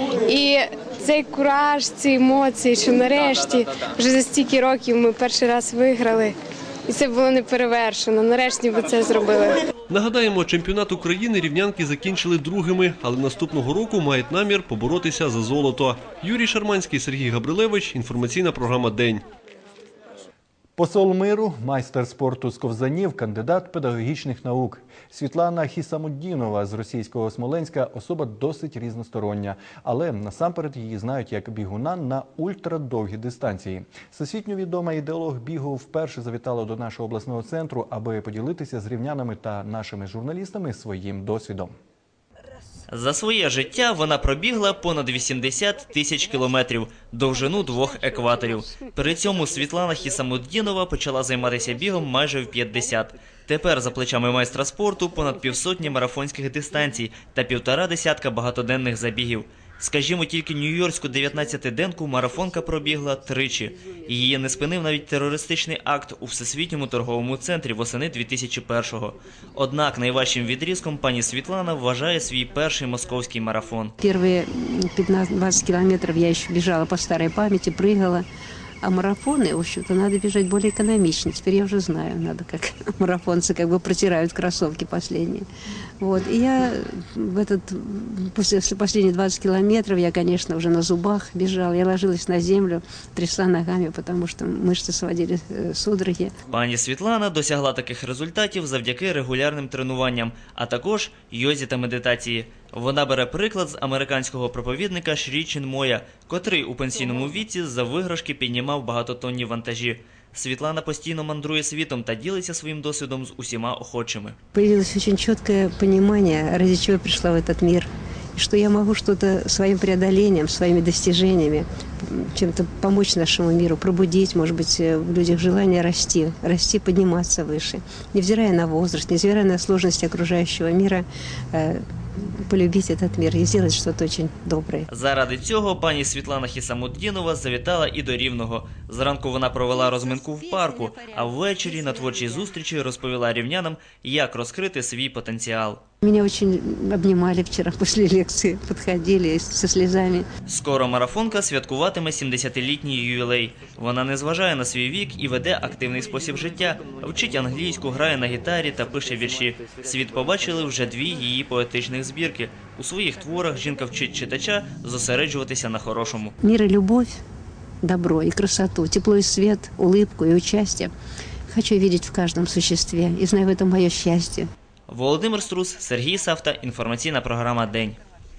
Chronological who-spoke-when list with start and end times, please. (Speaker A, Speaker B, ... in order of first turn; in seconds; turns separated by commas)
Speaker A: 0.2-6.3, Speaker A: 6.9-9.6, Speaker B: 9.9-19.2, Speaker C: 20.8-41.7, Speaker D: 42.9-73.9, Speaker E: 74.0-78.2, Speaker E: 78.8-85.5, Speaker E: 86.0-96.3, Speaker D: 96.5-114.4, Speaker E: 114.5-134.9, Speaker D: 134.9-145.8, Speaker E: 146.0-150.3, Speaker D: 150.5-166.3, Speaker E: 166.4-167.2, Speaker E: 167.8-170.9, Speaker E: 171.5-174.5, Speaker D: 174.9-178.0